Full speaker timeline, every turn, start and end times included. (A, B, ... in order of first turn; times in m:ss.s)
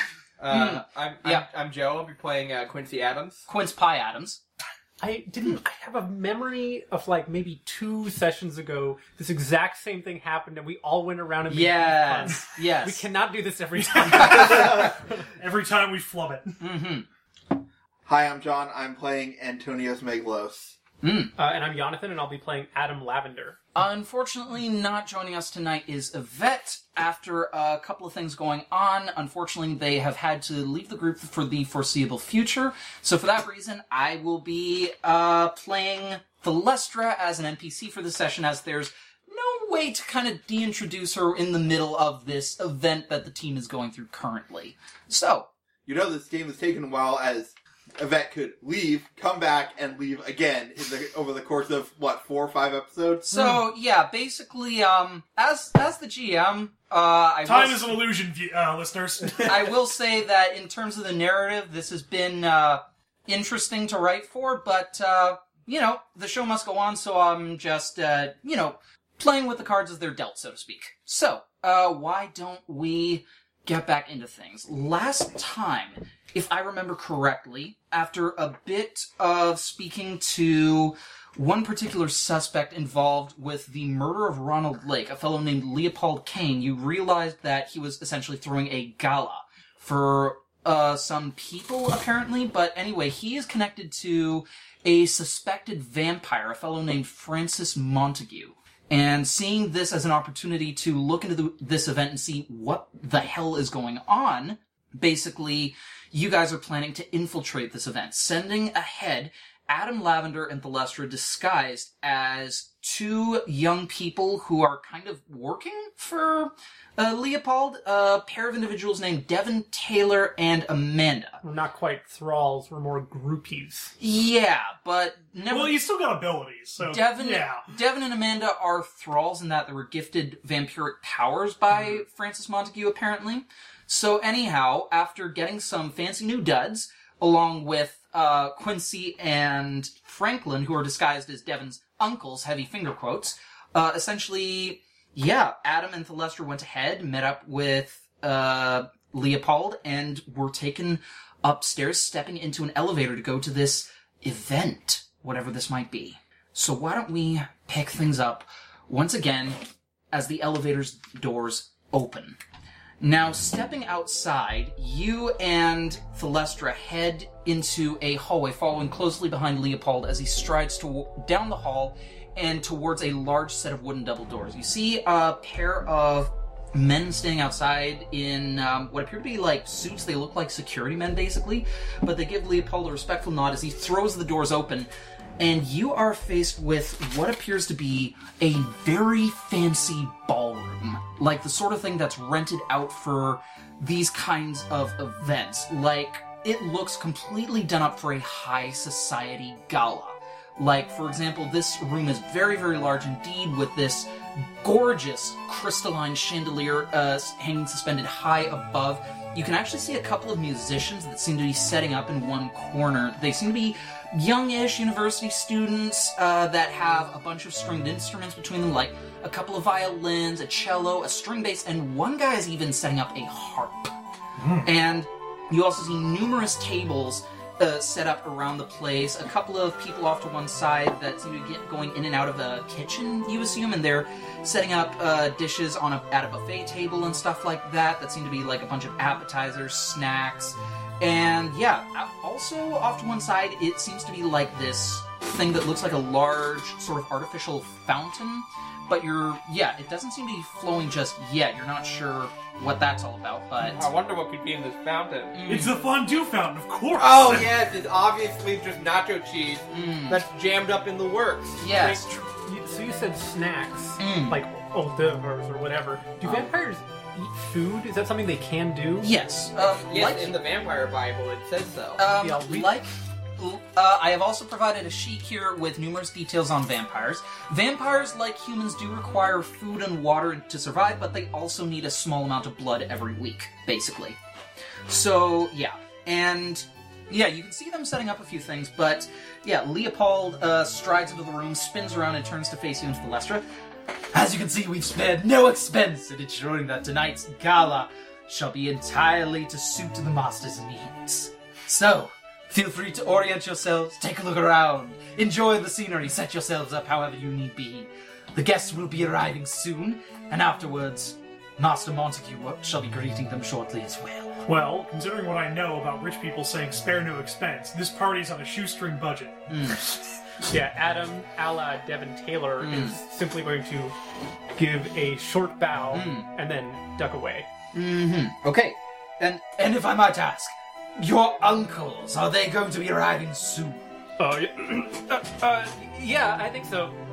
0:00.4-0:03.4 A
0:00.5-0:01.5 B
0:03.5-0:04.4 B
0:05.0-0:15.0 C
0:11.5-0:13.0 B
0:14.1-0:14.7 B
0:14.2-0:16.6 D
0:16.6-0:17.1 B
0:18.1-0:20.8 E
0:21.0-0:21.3 B
0:21.4-0:23.6 C
0:23.8-0:45.5 B
0:45.9-0:53.6 E
0:53.3-0:58.0 B
0:57.4-0:59.7 D
0:59.4-2:01.4 B
2:01.4-2:03.9 C
2:04.0-2:05.8 B
2:05.5-2:07.7 D
2:06.8-2:39.6 B
2:40.1-2:42.4 B
2:43.0-3:43.9 B
3:44.4-3:44.7 D
3:44.6-4:13.9 B
4:13.6-4:15.7 A
4:15.3-4:15.8 B
4:15.4-4:17.5 D
4:17.0-4:22.1 A
4:19.7-4:20.2 B
4:21.6-4:22.2 B
4:22.4-4:29.1 C
4:24.0-4:24.4 B
4:29.0-4:30.4 B
4:29.6-4:32.0 A
4:32.0-4:44.2 B
4:32.1-4:32.7 C
4:44.9-4:53.4 B
4:54.1-5:14.4 B
5:14.5-5:19.4 D
5:19.5-5:19.9 B
5:20.5-5:24.0 C
5:22.6-5:23.0 B
5:24.6-5:27.5 C
5:25.9-5:26.3 B
5:27.7-5:33.8 B
5:34.2-5:37.0 C